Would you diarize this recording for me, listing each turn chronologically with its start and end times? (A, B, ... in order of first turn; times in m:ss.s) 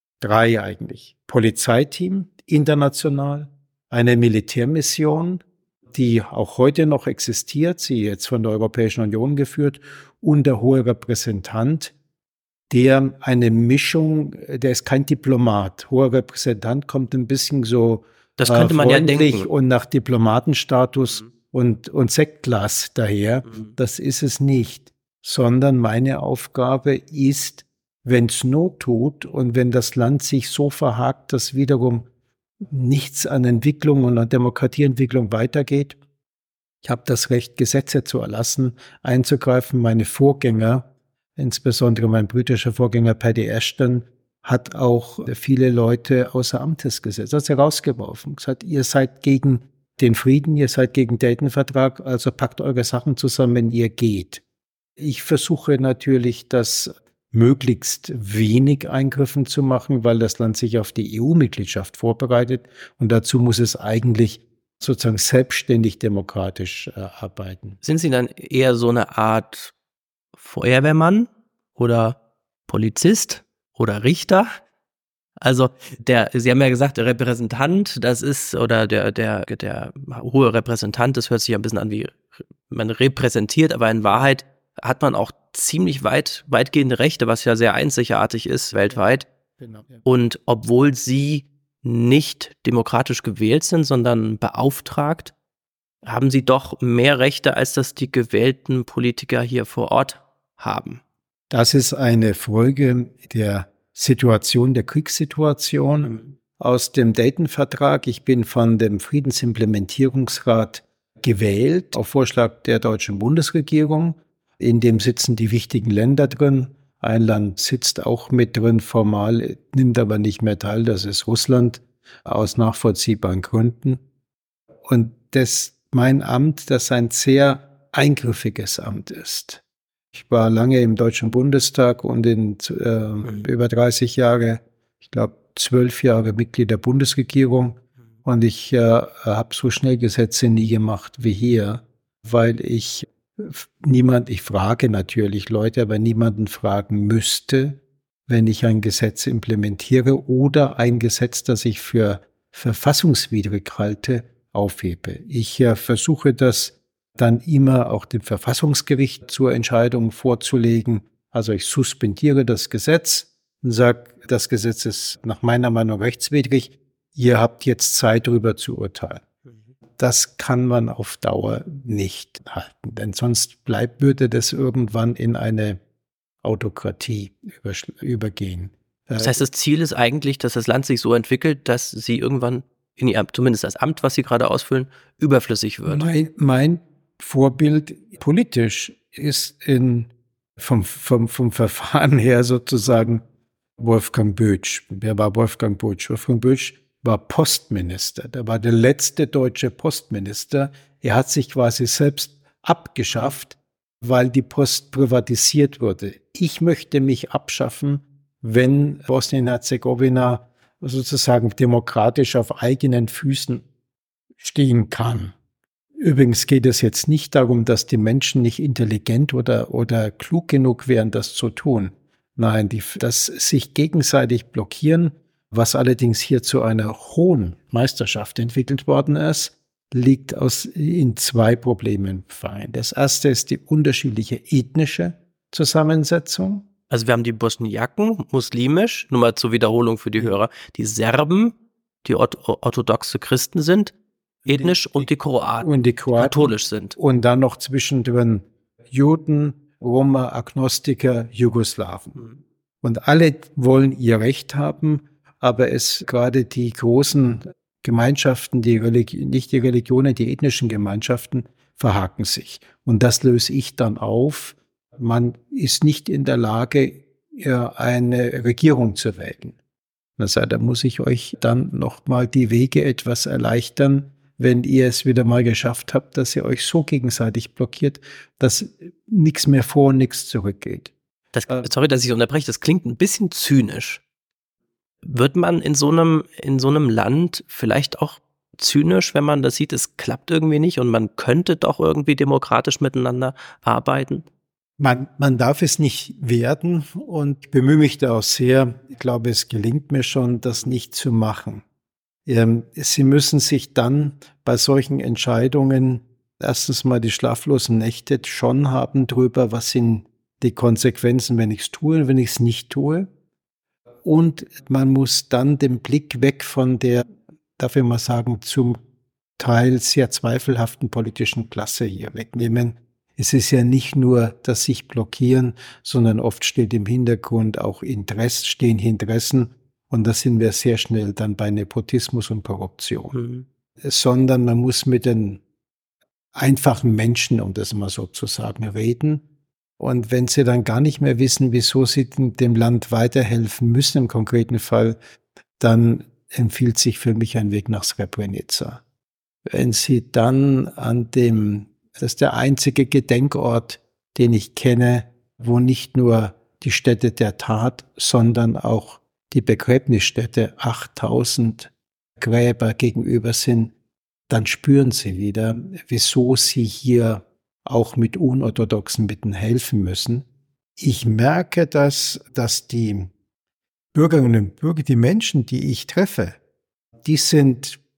0:00.2-0:11.9 A
0:12.7-0:32.1 A
0:18.4-0:19.5 B
0:32.6-0:36.0 A
0:36.8-0:54.4 A
0:55.0-1:07.8 A
1:07.8-1:09.7 B
1:10.4-1:14.5 B
1:15.4-1:29.3 B
1:29.6-1:30.0 A
1:30.0-1:35.3 B
1:36.0-1:41.0 B
1:41.5-2:04.0 A
2:04.8-2:09.6 A
2:10.1-2:49.2 A
2:50.0-2:55.8 A
2:56.4-2:59.4 A
2:59.2-3:06.1 B
3:05.9-3:13.2 A
3:13.8-3:33.6 A
3:34.4-3:35.4 A
3:36.0-3:56.7 A
3:56.9-4:03.9 B
4:04.5-4:07.0 B
4:04.5-4:05.1 A
4:05.6-4:12.2 A
4:12.8-4:29.6 A
4:30.2-4:40.9 A
4:41.3-4:44.0 B
4:45.0-4:54.3 B
4:54.8-5:01.6 A
5:02.3-5:13.1 A
5:14.0-5:17.0 A
5:17.6-5:18.8 A
5:19.4-5:33.1 A
5:33.1-5:33.5 B
5:33.8-5:35.4 A
5:36.4-5:39.2 A
5:39.8-5:45.0 A
5:45.6-5:48.8 A
5:49.5-6:03.7 A
6:04.3-6:10.3 A
6:10.8-6:13.1 A
6:13.9-6:16.4 A
6:17.0-6:17.8 A